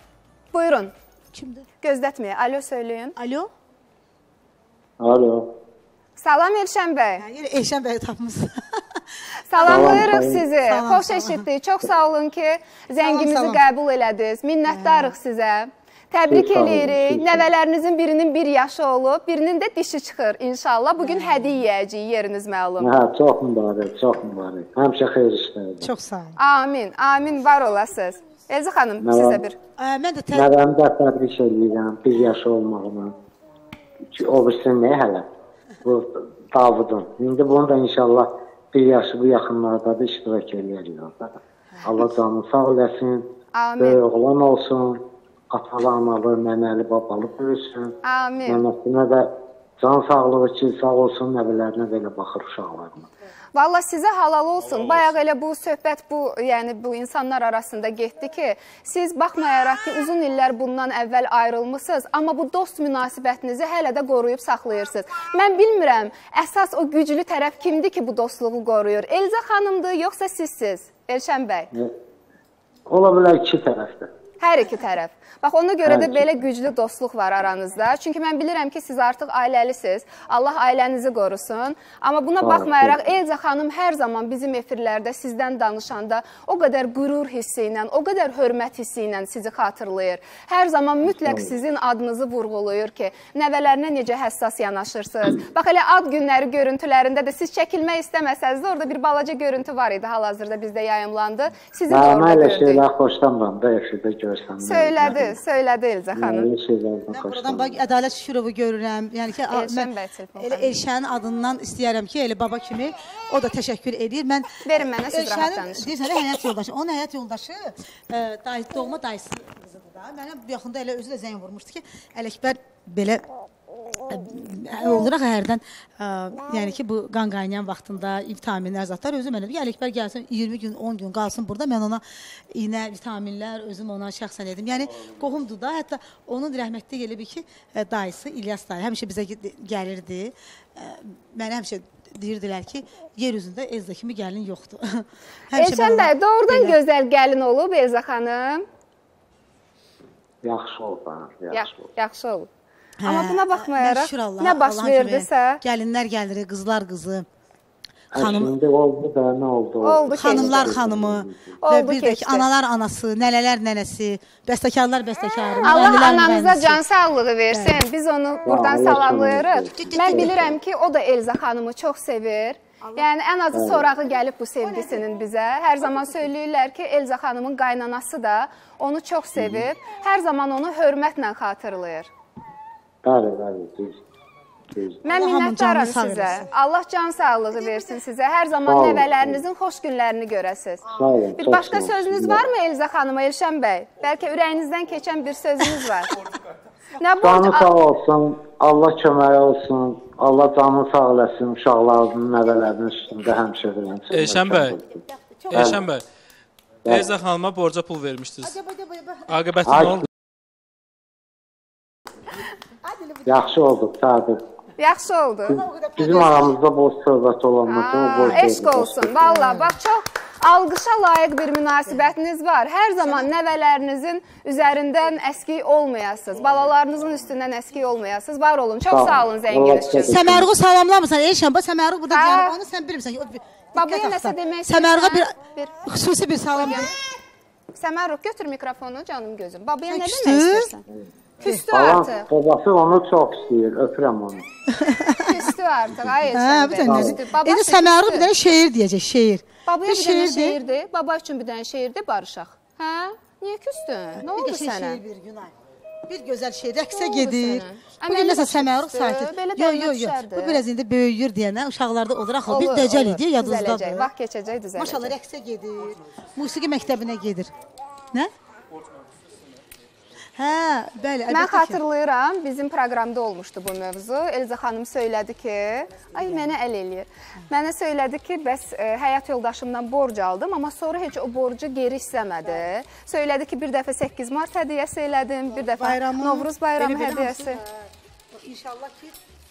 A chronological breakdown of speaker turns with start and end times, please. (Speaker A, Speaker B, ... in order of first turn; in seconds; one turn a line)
Speaker A: 0.5-0.9
Speaker B: 1.3-1.7
Speaker A: 1.8-3.1
Speaker B: 3.2-3.5
Speaker C: 5.0-5.5
Speaker A: 6.2-7.2
Speaker B: 7.2-9.0
Speaker A: 9.5-22.9
Speaker B: 9.5-11.5
Speaker C: 9.6-10.4
Speaker B: 13.0-13.6
Speaker B: 14.7-15.1
Speaker C: 16.3-17.4
Speaker B: 21.0-21.5
Speaker C: 22.8-25.9
Speaker B: 25.8-26.4
Speaker A: 26.4-29.6
Speaker C: 29.0-29.4
Speaker B: 29.8-30.5
Speaker C: 30.3-33.1
Speaker C: 34.0-35.2
Speaker C: 35.8-43.3
Speaker A: 43.5-44.0
Speaker C: 43.8-45.0
Speaker C: 45.5-47.9
Speaker A: 48.0-48.6
Speaker C: 48.5-49.3
Speaker C: 49.8-53.1
Speaker A: 53.5-71.7
Speaker C: 72.9-74.1
Speaker A: 74.4-102.8
Speaker C: 75.8-76.3
Speaker C: 82.4-83.1
Speaker C: 91.1-91.5
Speaker C: 101.9-105.4
Speaker A: 104.6-106.5
Speaker C: 106.1-107.8
Speaker B: 107.1-123.2
Speaker A: 109.5-110.8
Speaker A: 114.6-115.9
Speaker B: 124.1-146.8
Speaker A: 145.5-148.6
Speaker C: 150.4-151.9
Speaker A: 151.5-152.5
Speaker B: 153.0-157.2
Speaker A: 153.0-155.6
Speaker B: 158.1-158.5
Speaker C: 158.1-161.5
Speaker A: 159.8-160.8
Speaker B: 160.1-166.8
Speaker A: 161.6-162.4
Speaker A: 165.6-182.1
Speaker B: 167.5-167.8
Speaker C: 168.4-170.6
Speaker B: 169.8-170.5
Speaker B: 172.8-173.1
Speaker C: 173.5-173.9
Speaker B: 174.6-175.0
Speaker C: 179.3-179.7
Speaker C: 183.0-184.0
Speaker C: 184.7-185.0
Speaker B: 185.0-186.4
Speaker A: 185.0-190.8
Speaker C: 188.6-189.4
Speaker C: 190.9-192.4
Speaker A: 191.4-196.1
Speaker A: 197.0-197.7
Speaker C: 197.2-205.0
Speaker D: 204.1-204.8
Speaker B: 205.0-205.8
Speaker D: 205.5-206.0
Speaker C: 205.5-205.8
Speaker D: 206.8-208.5
Speaker B: 208.4-209.3
Speaker D: 209.3-210.1
Speaker C: 209.6-210.1
Speaker B: 212.8-213.6
Speaker C: 213.2-214.4
Speaker A: 214.8-215.6
Speaker B: 215.5-216.6
Speaker C: 216.0-219.4
Speaker A: 217.7-230.3
Speaker B: 218.2-218.5
Speaker B: 219.3-219.7
Speaker B: 221.9-222.1
Speaker B: 223.0-223.3
Speaker C: 228.9-230.5
Speaker B: 230.1-236.9
Speaker A: 232.1-232.5
Speaker A: 233.7-235.7
Speaker A: 236.6-236.9
Speaker A: 237.7-240.8
Speaker B: 239.9-240.7
Speaker A: 241.4-242.2
Speaker C: 241.7-244.4
Speaker B: 244.7-245.5
Speaker A: 245.2-248.3
Speaker B: 246.3-250.6
Speaker C: 246.8-247.2
Speaker A: 249.7-255.0
Speaker B: 254.2-255.5
Speaker B: 256.1-264.1
Speaker A: 256.9-260.6
Speaker A: 262.5-265.1
Speaker B: 264.8-267.5
Speaker B: 270.4-271.8
Speaker A: 271.3-287.6
Speaker B: 285.5-289.2